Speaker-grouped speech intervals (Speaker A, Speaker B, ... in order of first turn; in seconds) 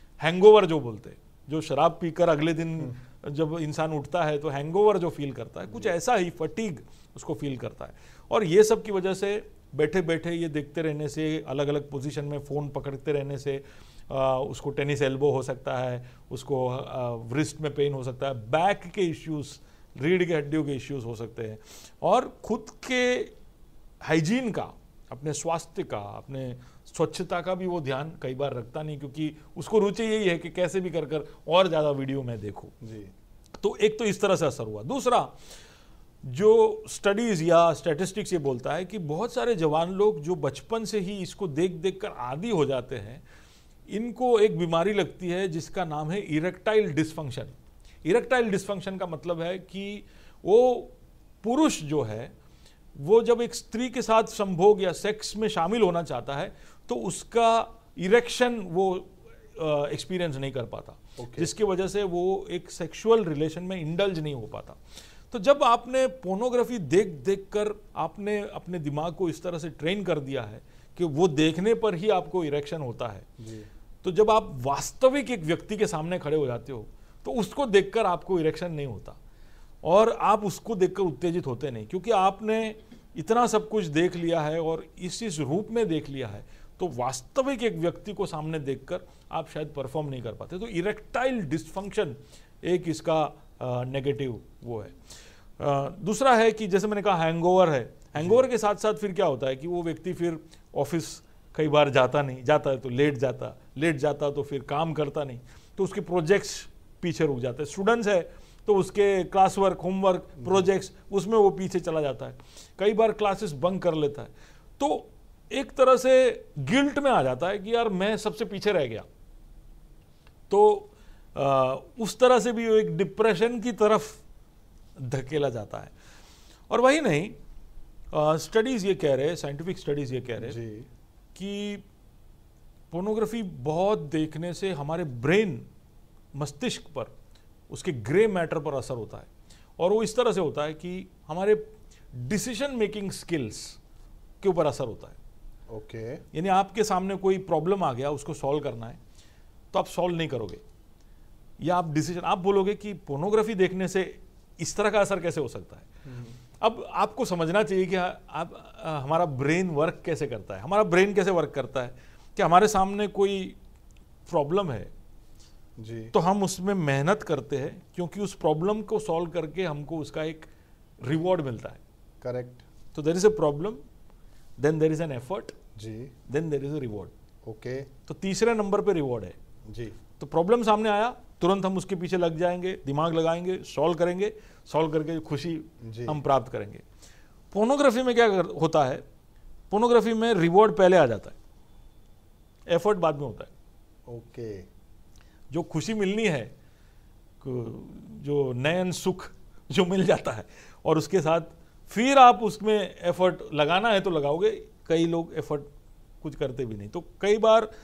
Speaker A: 0.2-23.3, 24.0-32.7, 33.6-35.3, 36.2-43.2, 43.9-47.5, 48.0-52.3, 53.0-64.8, 65.3-73.3, 74.0-79.2, 79.8-95.0, 95.6-119.0, 120.5-124.2, 125.0-125.9, 126.7-127.4, 128.1-130.6, 131.3-131.8, 132.9-135.7, 136.3-137.1, 137.7-143.8, 144.4-145.2, 146.3-149.0, 149.7-150.6, 151.6-155.9, 156.6-163.6, 164.3-164.9, 166.1-170.5, 171.0-171.8, 172.9-173.8, 174.6-175.6, 176.3-177.1, 178.1-179.4, 180.2-186.8, 187.5-189.0, 189.7-191.3, 192.7-193.5, 195.5-196.5, 197.4-205.7, 206.2-207.7
Speaker B: 32.8-33.1, 61.2-61.5, 73.4-73.7, 98.2-98.4, 130.4-130.9, 145.7-146.2, 156.1-156.3, 165.8-166.1, 172.2-172.6, 175.8-176.1, 177.4-177.9, 179.7-180.0, 185.8-186.2, 194.1-194.7